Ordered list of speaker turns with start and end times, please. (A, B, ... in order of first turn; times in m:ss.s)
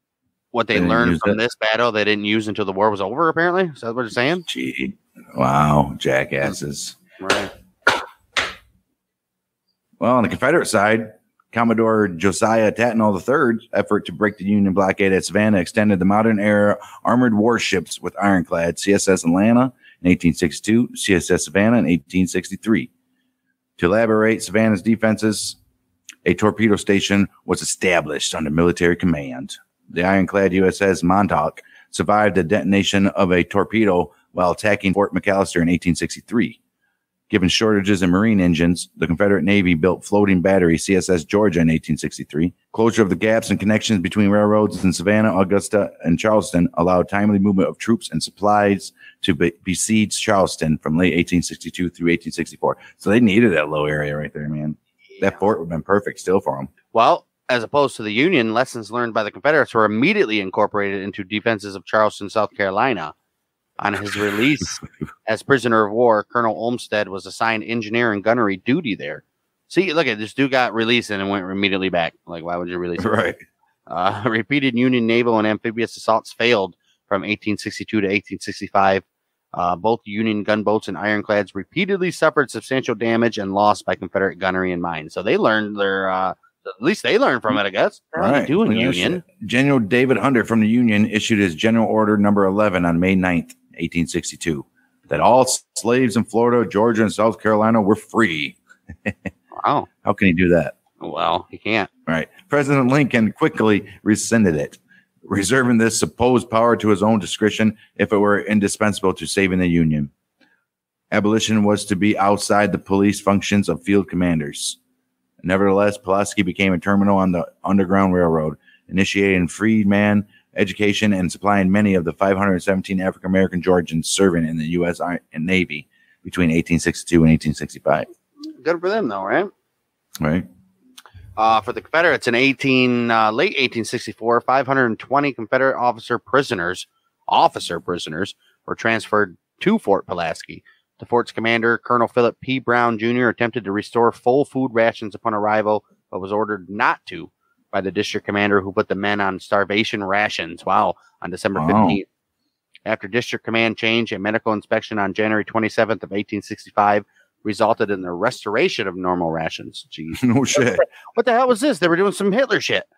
0:00.5-0:04.4 A
0:00.7-0:01.4 B
0:04.4-0:07.0 B
0:07.2-0:07.5 A
0:10.0-0:22.9 B
0:23.8-0:25.6 B
0:26.2-0:36.6 B
0:37.3-0:56.7 B
0:56.9-1:03.1 A
1:03.8-1:13.2 A
1:13.0-1:13.4 B
1:13.9-1:29.2 A
1:28.2-1:39.2 B
1:39.6-1:39.9 A
1:40.0-1:40.7 B
1:41.0-1:41.9 A
1:42.1-1:50.1 B
1:51.1-1:54.8 B
1:55.4-2:08.1 B
2:08.6-2:09.5 A
2:10.2-2:10.4 B
2:11.4-2:32.0 A
2:31.6-2:32.0 B
2:32.9-2:42.9 A
2:40.1-2:40.8 B